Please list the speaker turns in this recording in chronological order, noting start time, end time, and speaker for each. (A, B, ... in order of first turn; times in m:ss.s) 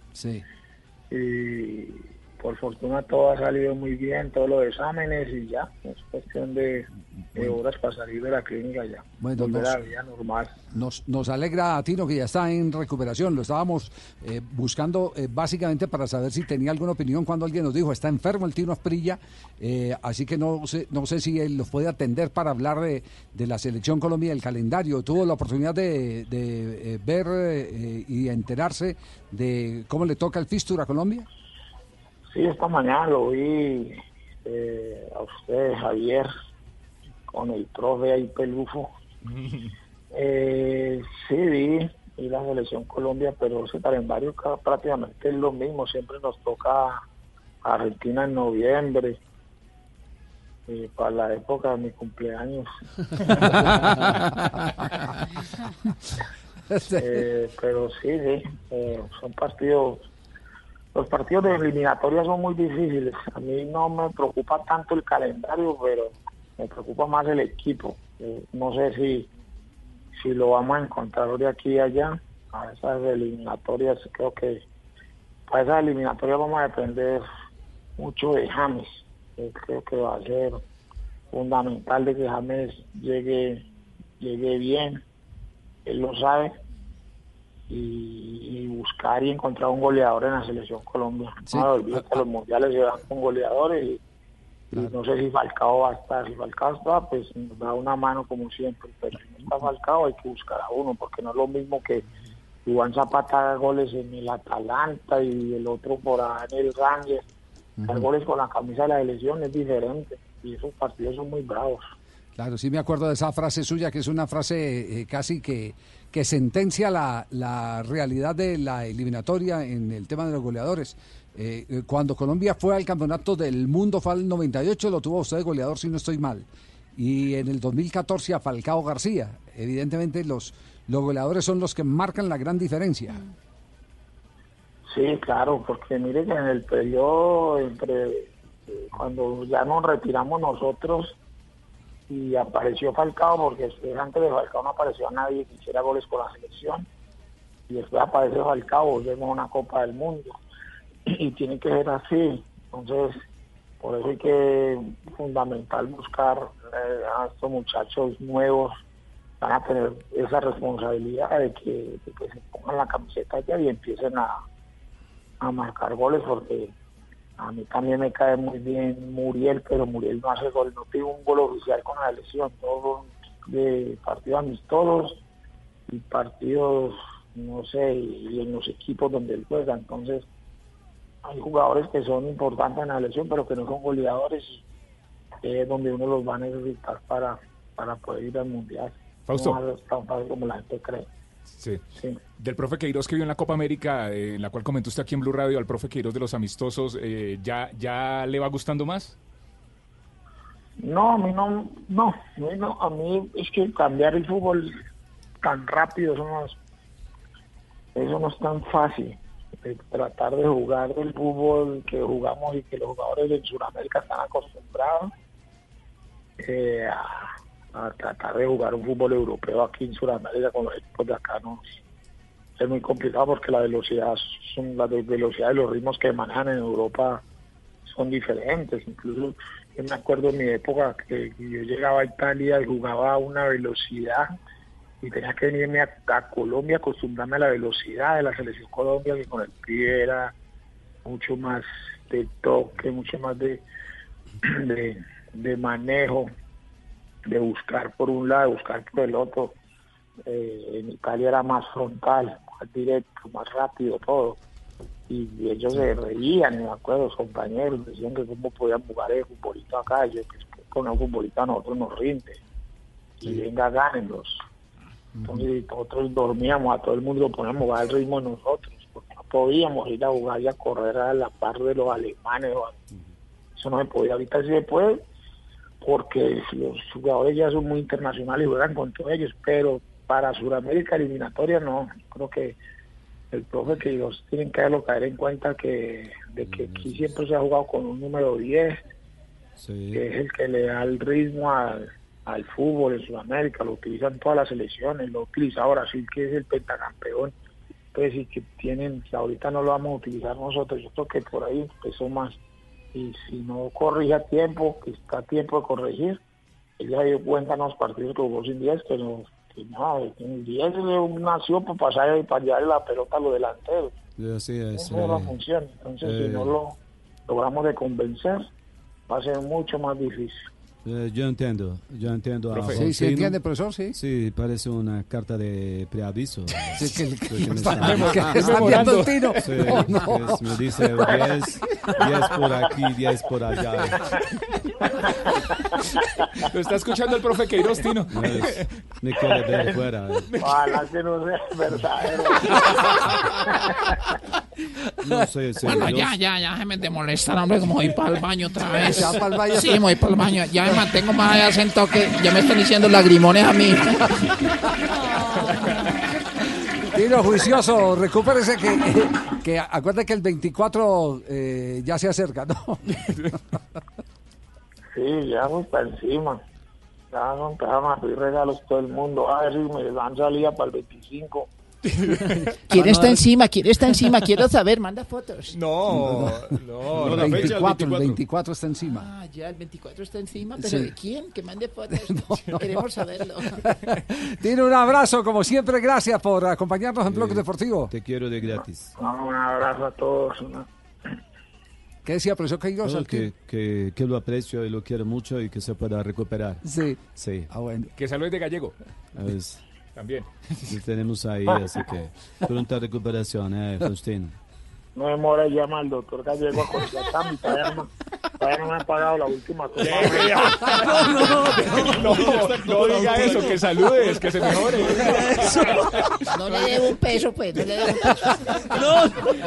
0:00.2-0:00.4 A
0:01.1-0:10.6 B
0:09.2-0:09.8 A
0:10.7-0:31.3 A
0:32.3-0:36.3 B
0:37.3-0:38.9 B
0:40.1-0:47.0 B
0:47.6-0:49.2 B
0:50.7-0:52.7 B
0:56.7-0:57.0 A
0:57.0-1:00.0 B
1:01.0-1:09.3 B
1:10.2-1:14.6 B
1:15.5-1:17.3 B
1:18.0-1:20.6 B
1:21.3-1:23.6 B
1:24.2-1:25.0 B
1:25.9-1:26.5 B
1:27.7-1:34.0 B
1:31.5-1:32.2 A
1:34.7-1:42.0 B
1:42.7-1:47.2 B
1:47.9-1:51.9 B
1:52.4-2:13.2 A
2:14.9-2:21.1 B
2:22.1-2:26.9 B
2:27.7-2:30.3 B
2:31.1-2:33.2 B
2:33.8-2:38.8 B
2:39.4-2:44.4 B
2:45.4-2:46.7 B
2:47.4-2:55.2 B
2:55.9-3:00.2 B
3:01.2-3:04.6 B
3:05.4-3:11.1 B
3:09.3-3:09.6 C
3:12.4-3:19.2 C
3:20.8-3:24.8 B
3:25.4-3:26.6 B
3:28.0-3:35.1 B
3:36.4-3:41.8 B
3:42.6-3:47.2 B
3:47.9-3:54.4 B
3:55.0-4:00.3 B
4:01.0-4:03.6 B
4:04.5-4:06.3 B
4:07.3-4:09.6 B
4:10.3-4:14.4 B
4:15.1-4:22.4 B
4:23.2-4:24.4 B
4:25.2-4:32.8 B
4:33.6-4:35.0 B
4:35.8-4:42.6 B
4:43.3-4:48.8 B
4:46.4-4:47.1 D
4:49.6-4:50.0 D
4:49.9-4:57.3 B
4:57.9-5:02.4 B
5:02.9-5:06.2 B
5:06.8-5:14.0 B
5:14.2-5:15.4 D
5:14.8-5:16.8 B
5:16.0-5:16.6 D
5:17.3-5:18.5 B
5:19.1-5:20.4 B
5:20.8-5:23.4 D
5:22.5-5:22.9 C
5:22.6-5:24.0 A
5:23.9-5:28.9 D
5:26.7-5:30.4 A
5:27.8-5:29.4 C
5:29.4-5:34.0 D
5:36.5-5:38.3 C
5:38.1-5:40.2 D
5:40.4-5:42.6 B
5:45.0-5:46.2 D
5:45.6-5:54.2 E
5:48.8-5:49.9 A
5:56.9-6:03.1 A
6:05.0-6:06.4 B
6:07.1-6:11.5 B
6:12.7-6:15.6 E
6:12.8-6:13.1 A
6:15.5-6:17.5 C
6:15.9-6:19.1 A
6:17.0-6:18.2 D
6:18.9-6:23.6 E
6:20.6-6:20.9 A
6:21.9-6:22.8 A
6:23.8-6:27.9 A
6:27.1-6:28.9 D
6:29.0-6:30.7 B
6:32.0-6:33.3 A
6:32.8-6:36.6 D
6:36.6-6:37.0 A
6:37.2-6:37.5 D
6:37.5-6:37.9 A
6:38.0-6:38.8 C
6:39.2-6:39.6 D
6:40.0-6:40.3 C
6:40.7-6:44.4 D
6:45.0-6:47.9 B
6:48.4-6:50.4 B
6:49.8-6:50.6 C
6:51.4-6:55.6 C
6:55.3-6:58.3 E